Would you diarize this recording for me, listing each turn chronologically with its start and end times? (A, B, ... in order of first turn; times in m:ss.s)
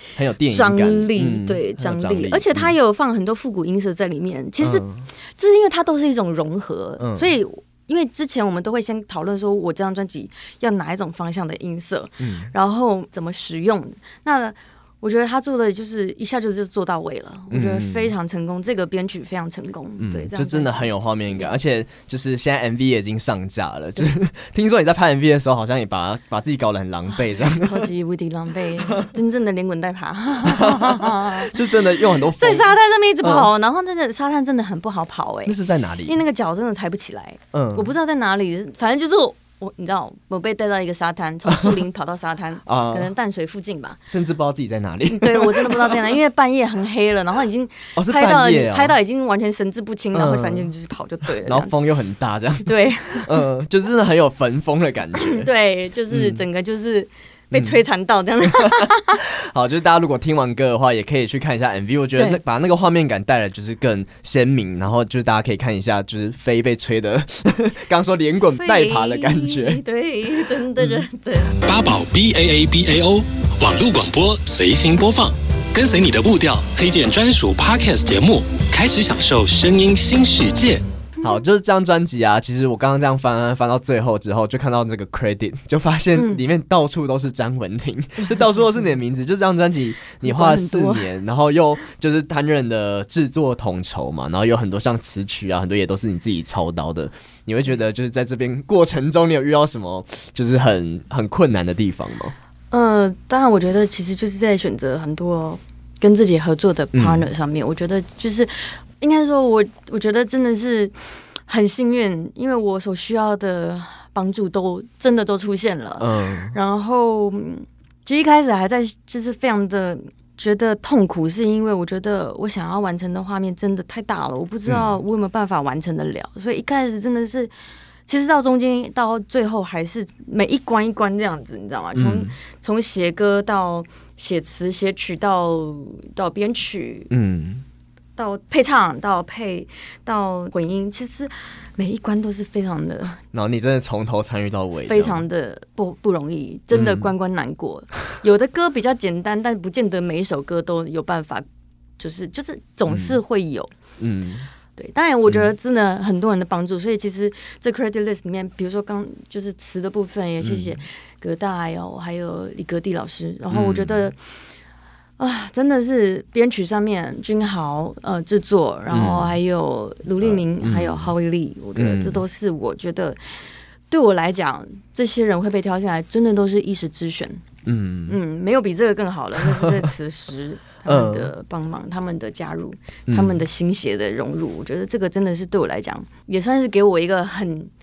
0:00.2-0:02.7 A
0:00.4-0:21.6 B
0:04.6-0:05.1 A
0:07.0-0:07.3 A
0:12.2-0:12.5 A
0:17.5-0:18.1 A
0:20.0-0:27.9 A
0:27.2-0:44.0 B
0:30.4-0:33.5 A
0:35.5-0:36.2 A
0:37.5-0:37.9 A
0:42.7-0:43.1 A
0:44.1-0:46.1 A
0:45.1-0:51.7 B
0:48.0-0:49.0 A
0:50.1-0:50.7 A
0:51.4-0:55.5 A
0:52.6-0:53.5 B
0:55.2-0:59.2 B
0:56.1-0:56.4 A
0:58.5-1:09.8 A
1:08.6-1:11.6 B
1:10.8-1:11.0 A
1:11.6-1:20.8 C
1:21.2-1:42.3 A
1:26.2-1:26.4 B
1:30.2-1:31.1 B
1:42.7-2:07.5 B
1:46.9-1:47.3 A
1:56.0-1:56.6 A
2:08.1-2:17.1 B
2:12.0-2:12.3 A
2:17.1-2:17.6 A
2:18.2-2:23.2 B
2:23.3-2:25.2 A
2:24.9-2:31.4 B
2:26.7-2:27.1 A
2:32.0-2:33.7 B
2:32.9-2:33.2 A
2:34.0-2:34.5 A
2:34.8-2:44.2 B
2:40.4-2:40.8 A
2:43.5-2:44.1 A
2:45.2-2:53.4 B
2:48.9-2:49.4 A
2:50.2-2:51.1 A
2:51.8-2:52.2 A
2:53.9-2:57.4 B
2:57.7-2:58.2 A
2:58.1-3:07.7 B
3:00.9-3:01.3 A
3:03.1-3:03.4 A